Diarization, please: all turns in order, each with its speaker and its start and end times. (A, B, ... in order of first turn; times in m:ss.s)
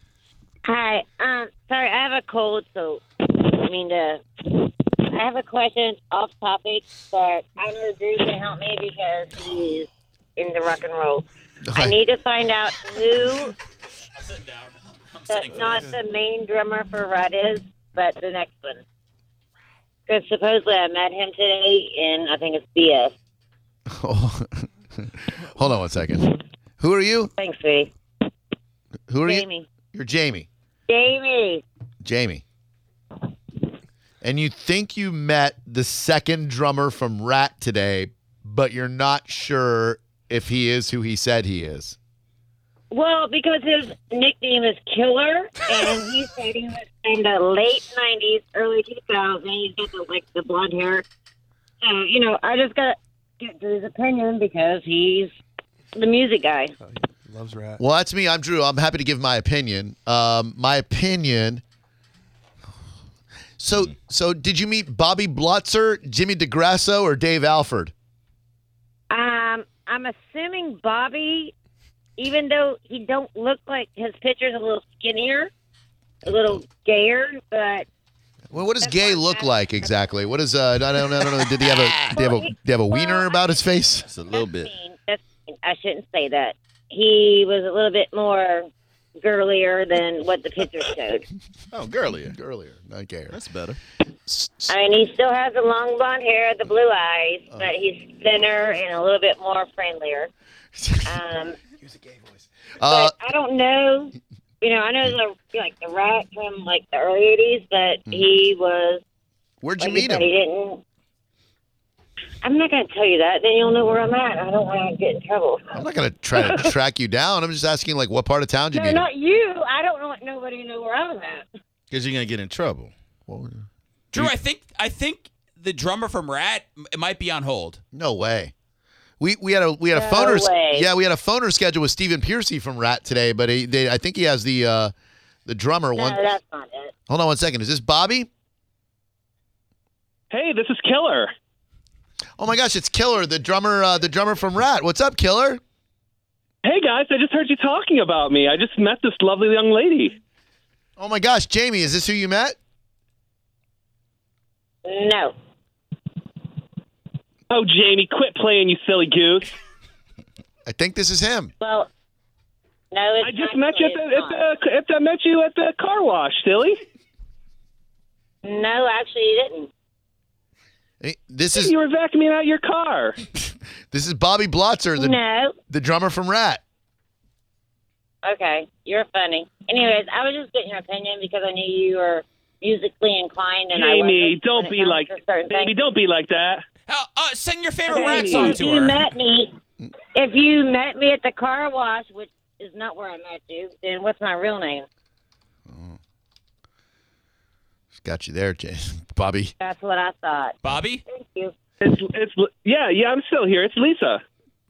0:00.6-0:13.6 A
0:11.7-0:12.0 B
0:14.2-0:15.9 C
0:15.3-0:18.8 A
0:20.1-0:23.1 A
0:23.9-0:27.3 B
0:27.4-0:27.9 A
0:29.1-0:30.5 B
0:29.2-0:29.7 A
0:30.9-0:31.6 A
0:32.0-0:32.4 B
0:34.2-0:42.0 B
0:42.9-0:51.0 A
0:51.8-0:55.3 A
0:56.0-0:56.7 A
0:57.7-1:01.6 B
1:03.6-1:07.9 B
1:09.1-1:11.5 A
1:12.2-1:15.5 A
1:16.2-1:17.9 A
1:16.3-1:16.6 B
1:18.5-1:24.1 B
1:18.8-1:19.5 A
1:22.0-1:23.3 A
1:24.1-1:24.7 D
1:24.3-1:31.3 A
1:31.7-1:32.4 D
1:32.2-1:33.4 B
1:33.3-1:33.8 D
1:34.3-1:34.7 B
1:34.7-1:40.3 A
1:40.8-1:41.1 B
1:41.0-1:41.6 A
1:41.8-1:43.1 B
1:42.9-1:49.0 A
1:49.6-1:50.3 B
1:49.8-1:50.8 A
1:52.4-1:55.8 A
1:55.7-1:59.1 B
1:58.7-2:01.5 A
2:01.9-2:02.9 D
2:03.3-2:04.3 B
2:04.1-2:07.8 C
2:07.9-2:08.5 B
2:09.2-2:14.9 B
2:09.9-2:10.9 A
2:15.5-2:16.3 B
2:16.0-2:16.9 A
2:17.1-2:18.3 B
2:20.3-2:21.3 E
2:22.4-2:25.6 B
2:26.6-2:30.2 E
2:31.0-2:32.6 B
2:34.8-2:35.3 A
2:37.5-2:39.6 E
2:40.7-2:41.5 B
2:41.6-2:41.9 A
2:42.9-2:44.5 A
2:43.2-2:46.8 E
2:48.4-2:49.7 A
2:51.0-2:51.7 B
2:51.5-2:53.2 E
2:53.9-2:55.2 B
2:55.0-2:55.6 A
2:55.7-2:56.6 B
2:58.2-3:05.9 A
3:03.7-3:06.6 E
3:06.9-3:09.0 C
3:07.9-3:09.5 A
3:07.9-3:08.6 E
3:10.1-3:14.9 A
3:15.7-3:16.0 B
3:18.0-3:19.5 B
3:19.6-3:21.5 A
3:20.6-3:21.0 C
3:21.8-3:24.2 E